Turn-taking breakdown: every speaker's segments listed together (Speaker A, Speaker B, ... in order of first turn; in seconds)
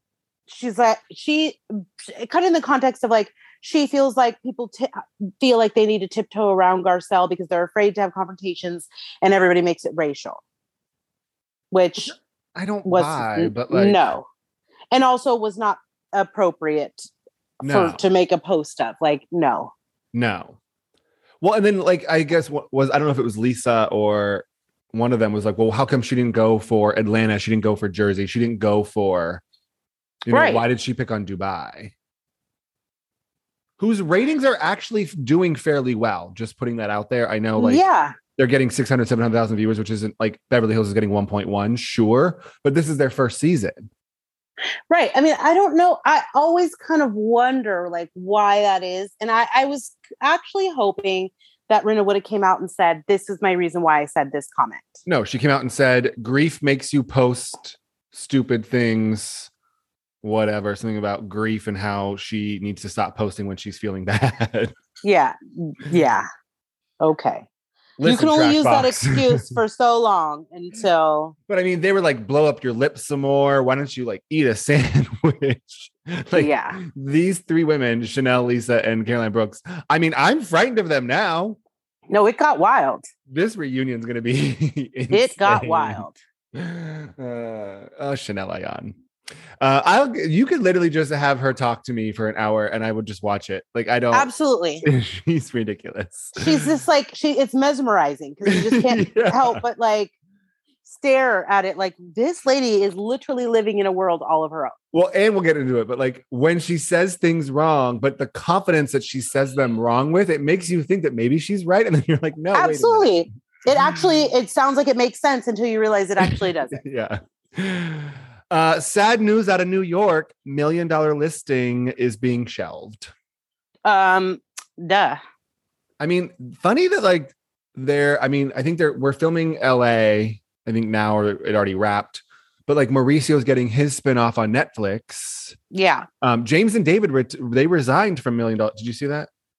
Speaker A: 0.5-10.4, 11.7-12.2, 12.9-14.3, 14.9-17.1, 17.6-19.7, 30.3-30.6, 37.6-38.2, 44.9-55.0, 65.0-66.3, 67.0-67.5, 68.0-71.3, 76.3-76.8, 82.1-83.1, 85.1-86.2, 94.1-94.8, 96.4-100.1, 100.8-104.8, 112.5-116.8, 123.8-125.2, 135.7-136.1
Speaker B: 12.1-14.0, 17.6-18.0, 20.1-20.6, 21.4-29.4, 30.3-31.9, 33.8-37.8, 38.4-43.9, 55.1-59.5, 60.2-64.7, 68.0-69.6, 71.5-81.6, 83.3-86.0, 86.5-89.0, 89.6-94.3, 94.8-96.7, 98.5-99.6, 104.9-113.2, 116.2-123.1, 126.0-135.6, 136.2-139.3